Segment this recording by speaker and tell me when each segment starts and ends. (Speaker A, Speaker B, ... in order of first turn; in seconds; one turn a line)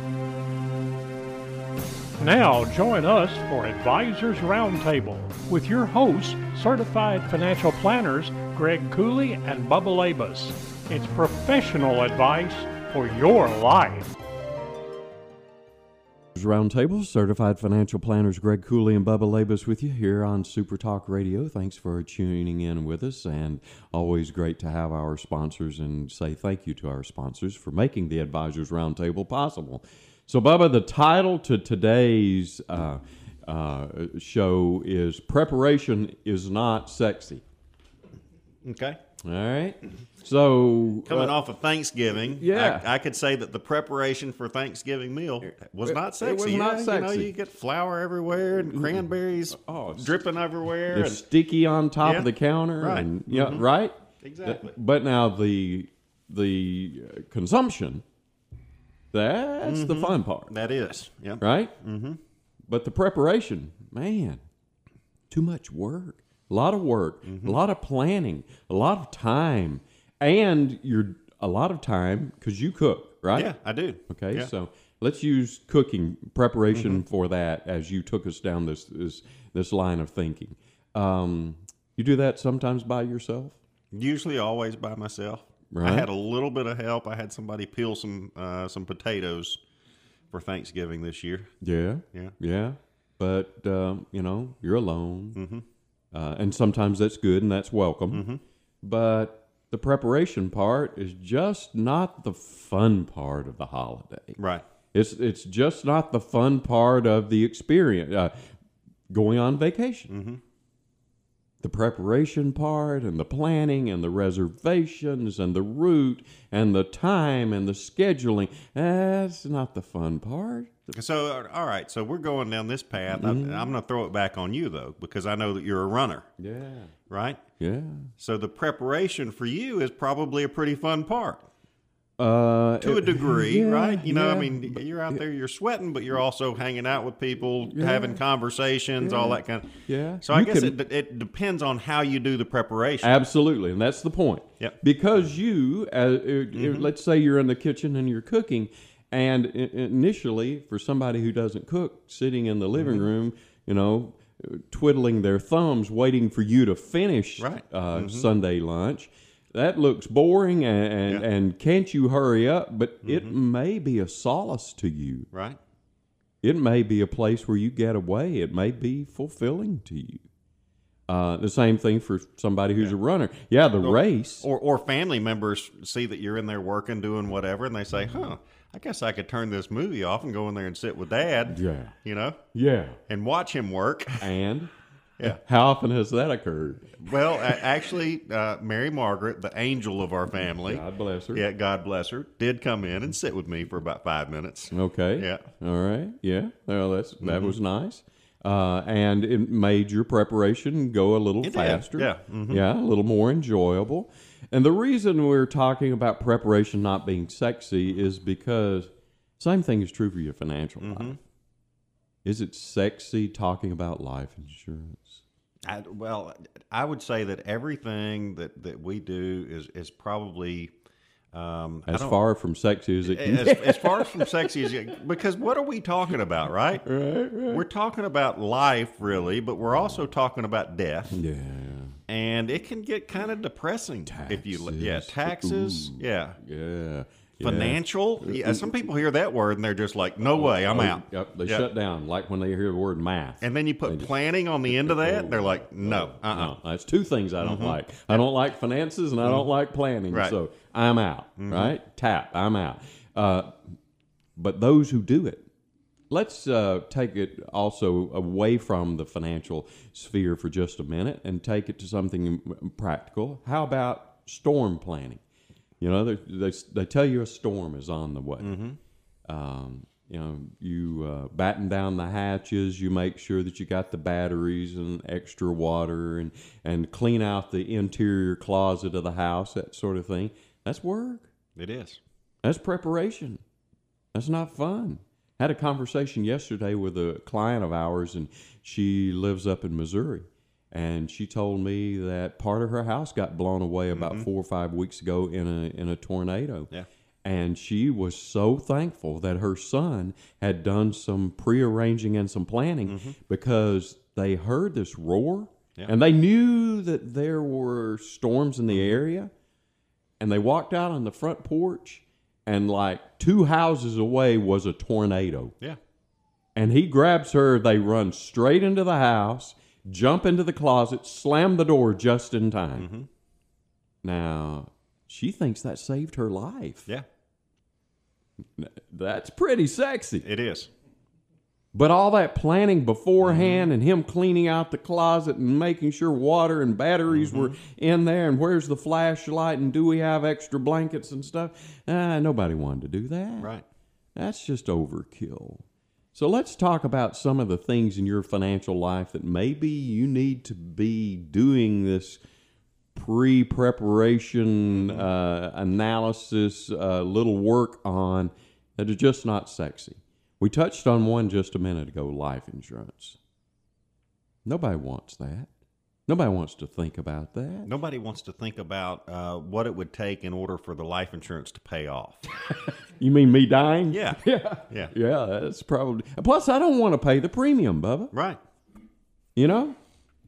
Speaker A: 2.2-14.1
Speaker B: 16.3-37.4
Speaker C: 38.6-39.0
Speaker B: 39.2-41.4
Speaker C: 41.1-51.2
Speaker B: 42.3-42.9
Speaker B: 45.4-47.3
Speaker B: 49.5-50.2
Speaker B: 50.9-58.0
Speaker C: 52.0-52.3
Speaker C: 52.8-53.6
Speaker C: 54.2-54.8
Speaker B: 59.1-60.5
Speaker C: 59.6-62.2
Speaker B: 61.4-61.7
Speaker B: 62.7-64.4
Speaker B: 65.3-73.5
Speaker C: 67.2-67.6
Speaker C: 73.3-74.5
Speaker B: 74.1-83.6
Speaker C: 76.7-77.0
Speaker C: 83.9-89.6
Speaker B: 85.7-86.1
Speaker C: 90.3-91.5
Speaker B: 91.6-95.4
Speaker C: 95.3-95.6
Speaker B: 96.1-98.2
Speaker C: 98.1-98.4
Speaker B: 98.8-104.4
Speaker C: 104.4-104.6
Speaker B: 104.9-108.5
Speaker B: 109.1-110.1
Speaker C: 110.1-110.4
Speaker B: 111.6-120.9
Speaker C: 120.9-126.3
Speaker B: 123.0-123.7
Speaker B: 126.4-126.9
Speaker C: 127.1-127.4
Speaker B: 127.6-128.1
Speaker C: 128.2-131.4
Speaker B: 132.2-135.2
Speaker C: 132.8-143.1
Speaker B: 137.7-138.2
Speaker B: 139.0-140.7
Speaker B: 143.0-165.3
Speaker C: 146.5-146.9
Speaker C: 152.8-153.1
Speaker C: 157.4-158.3
Speaker C: 163.0-163.3
Speaker C: 165.3-165.6
Speaker B: 166.4-170.2
Speaker B: 171.1-174.4
Speaker C: 173.8-182.4
Speaker B: 181.5-181.9
Speaker B: 182.5-183.0
Speaker C: 183.1-184.3
Speaker B: 184.2-184.7
Speaker B: 185.2-187.1
Speaker C: 187.0-195.4
Speaker B: 190.6-191.4
Speaker B: 194.7-211.2
Speaker C: 197.2-197.6
Speaker C: 201.4-202.6
Speaker C: 210.8-211.2
Speaker B: 212.2-215.2
Speaker C: 215.6-220.7
Speaker C: 221.3-222.2
Speaker B: 221.9-225.0
Speaker C: 223.0-226.8
Speaker B: 226.8-227.6
Speaker C: 227.5-231.2
Speaker B: 231.1-232.0
Speaker C: 232.1-236.4
Speaker B: 234.1-238.7
Speaker C: 237.4-241.7
Speaker B: 240.3-244.1
Speaker C: 243.4-246.6
Speaker B: 244.7-253.5
Speaker C: 247.4-248.2
Speaker C: 249.2-249.5
Speaker C: 250.1-250.3
Speaker C: 251.4-251.8
Speaker B: 254.4-255.4
Speaker B: 256.1-265.2
Speaker B: 265.8-268.6
Speaker C: 268.4-268.8
Speaker B: 269.3-281.3
Speaker C: 281.6-282.0
Speaker B: 282.4-283.4
Speaker B: 284.1-296.7
Speaker C: 293.9-294.3
Speaker B: 297.2-309.3
Speaker C: 302.9-303.1
Speaker C: 308.7-309.0
Speaker B: 310.2-315.5
Speaker B: 316.6-322.9
Speaker C: 322.8-323.1
Speaker B: 324.0-326.9
Speaker B: 328.6-330.2
Speaker C: 330.2-330.7
Speaker B: 331.7-343.5
Speaker C: 333.2-333.7
Speaker C: 337.1-337.6
Speaker B: 344.1-352.2
Speaker B: 352.9-363.2
Speaker C: 354.7-355.1
Speaker B: 364.4-365.5
Speaker B: 366.1-367.7
Speaker C: 367.6-372.2
Speaker B: 372.6-378.1
Speaker C: 373.9-374.9
Speaker C: 378.1-378.4
Speaker B: 379.4-379.8